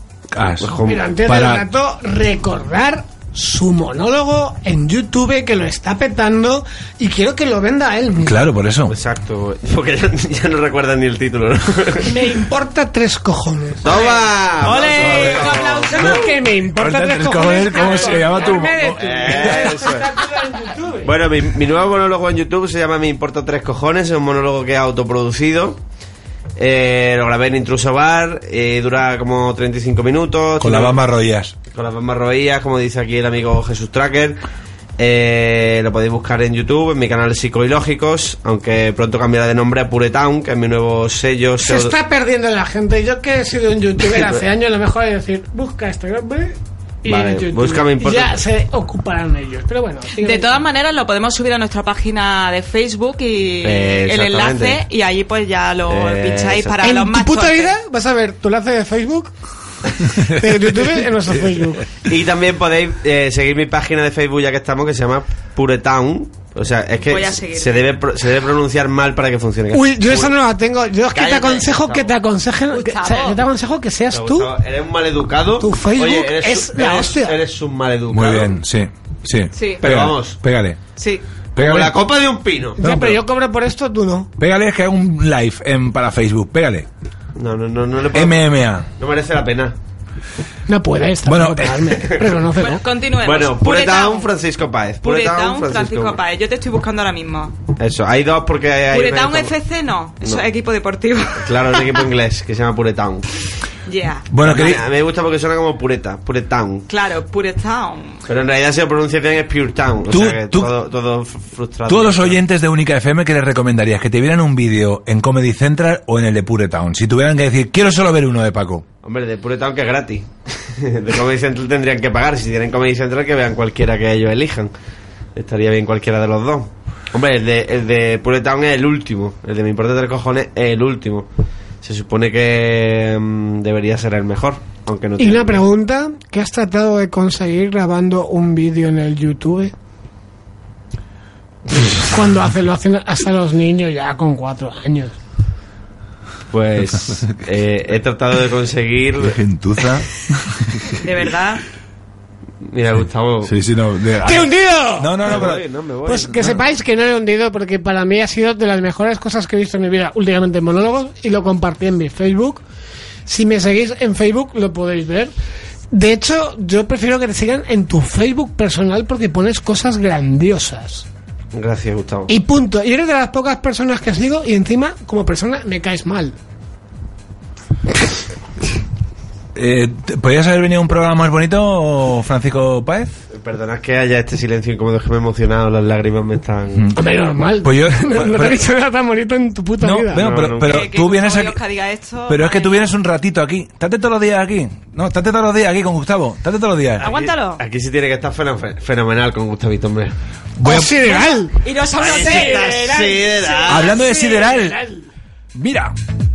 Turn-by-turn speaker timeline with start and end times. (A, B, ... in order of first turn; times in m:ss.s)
0:00.3-0:01.6 A
0:00.6-0:01.1 B
0:00.9-0:08.4 C
0:08.2-0:09.0 A
0:08.9-0:12.3 B
0:12.0-0:14.0 C
0:13.8-0:16.1 B
0:13.9-0:16.3 D
0:15.0-0:19.7 A
0:15.9-0:21.1 C
0:17.8-0:18.4 D
0:19.0-0:20.1 B
0:21.0-0:25.8 B
0:26.6-0:31.0 B
0:30.6-0:31.5 A
0:31.7-0:34.4 B
0:35.0-0:41.9 B
0:41.6-0:50.6 C
0:47.1-0:48.4 B
0:50.2-0:57.7 D
0:53.6-0:54.8 B
0:55.9-0:56.8 B
0:56.8-0:59.3 C
1:00.0-1:01.9 C
1:02.1-1:10.3 B
1:07.1-1:07.8 D
1:09.7-1:14.5 C
1:11.1-1:12.1 B
1:12.7-1:13.4 D
1:14.1-1:18.6 B
1:15.6-1:17.4 C
1:18.1-1:20.8 A
1:19.5-1:19.8 D
1:19.8-1:20.4 B
1:21.0-1:21.2 D
1:21.6-1:22.0 A
1:21.6-1:22.8 B
1:22.8-1:24.3 C
1:22.8-1:23.2 A
1:24.4-1:26.9 A
1:27.4-1:29.8 B
1:28.1-1:28.9 A
1:30.7-1:32.8 C
1:31.3-1:32.0 A
1:32.0-1:32.4 B
1:32.6-1:34.3 D
1:33.2-1:36.2 B
1:35.0-1:37.6 D
1:37.8-1:39.5 B
1:38.9-1:42.1 D
1:41.4-1:43.3 B
1:43.9-1:44.6 D
1:44.3-1:44.8 A
1:44.4-1:46.9 B
1:46.9-1:48.2 D
1:48.3-1:52.4 B
1:50.1-1:50.7 A
1:51.9-1:58.8 A
1:59.0-2:04.7 B
2:05.4-2:11.3 B
2:11.8-2:15.6 B
2:15.2-2:19.7 C
2:21.7-2:25.2 C
2:26.5-2:29.4 B
2:27.1-2:27.4 A
2:29.2-2:31.0 A
2:31.0-2:31.6 D
2:32.6-2:33.5 B
2:33.4-2:35.6 A
2:34.2-2:35.5 C
2:35.2-2:36.6 B
2:36.1-2:42.6 C
2:43.3-2:45.3 C
2:45.9-2:51.1 C
2:51.5-2:52.3 B
2:52.3-2:56.4 C
2:59.6-3:03.2 A
3:03.3-3:06.9 B
3:07.0-3:10.3 C
3:07.6-3:08.6 A
3:09.8-3:11.6 A
3:10.1-3:10.9 B
3:10.6-3:12.9 D
3:12.3-3:17.0 A
3:17.0-3:20.2 B
3:17.0-3:17.6 D
3:20.6-3:21.2 A
3:20.6-3:25.0 C
3:21.0-3:22.8 D
3:22.0-3:24.0 B
3:23.7-3:24.8 A
3:25.5-3:25.9 A